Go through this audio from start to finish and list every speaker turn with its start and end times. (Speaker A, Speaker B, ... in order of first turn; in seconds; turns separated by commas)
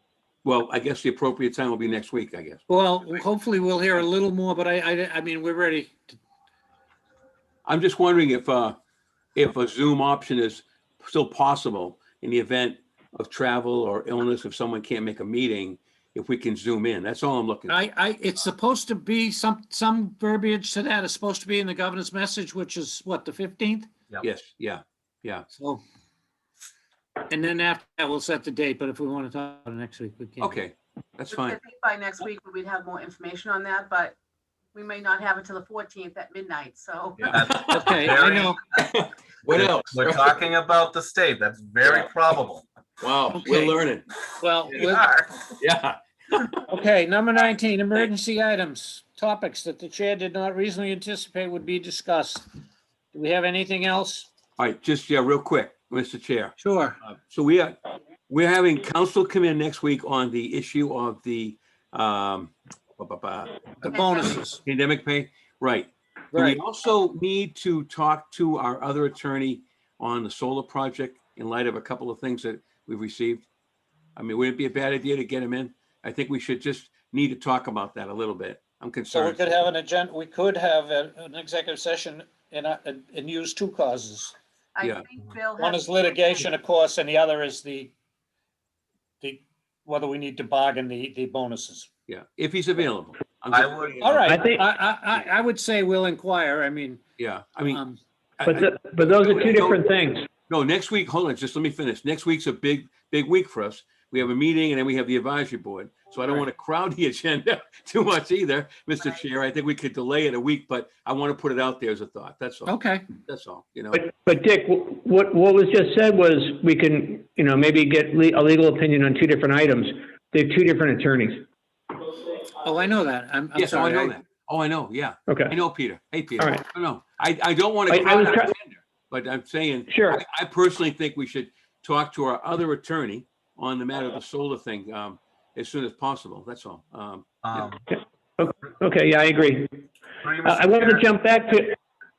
Speaker A: 0.4-2.6, Speaker B: 2.7-6.2, Speaker A: 7.7-8.8, Speaker A: 9.3-17.8, Speaker B: 17.7-23.9, Speaker A: 24.2-25.5, Speaker B: 25.5-25.8, Speaker B: 27.3-30.6, Speaker A: 30.4-31.6, Speaker C: 31.3-34.2, Speaker C: 34.7-37.4, Speaker A: 37.2-38.2, Speaker D: 37.3-38.6, Speaker B: 37.7-38.6, Speaker A: 38.8-40.4, Speaker D: 39.5-42.6, Speaker A: 41.8-42.1, Speaker A: 43.0-44.1, Speaker B: 43.3-43.8, Speaker B: 44.4-45.1, Speaker D: 44.8-45.5, Speaker A: 45.6-46.6, Speaker B: 46.7-52.5, Speaker B: 53.1-54.3, Speaker A: 54.6-56.6, Speaker B: 56.6-57.0, Speaker A: 57.1-57.8, Speaker A: 58.3-63.9, Speaker B: 63.8-64.6, Speaker C: 63.9-64.4, Speaker A: 64.7-73.5, Speaker B: 66.3-66.6, Speaker A: 74.2-79.7, Speaker B: 79.1-84.3, Speaker C: 84.8-86.5, Speaker B: 85.6-87.9, Speaker B: 89.2-91.9, Speaker A: 92.1-94.4, Speaker D: 93.5-94.0, Speaker B: 94.0-97.0, Speaker E: 94.3-94.6, Speaker A: 97.2-97.8, Speaker B: 97.7-98.0, Speaker A: 98.4-99.9, Speaker E: 98.4-100.3, Speaker A: 100.5-114.0, Speaker B: 112.7-113.2, Speaker E: 113.9-121.5, Speaker B: 122.6-124.1, Speaker A: 123.5-137.6, Speaker E: 125.3-125.6, Speaker E: 126.4-126.6, Speaker E: 127.9-128.6, Speaker E: 129.9-130.2, Speaker D: 137.4-137.8, Speaker E: 137.9-139.7, Speaker D: 140.2-141.1, Speaker E: 140.4-141.8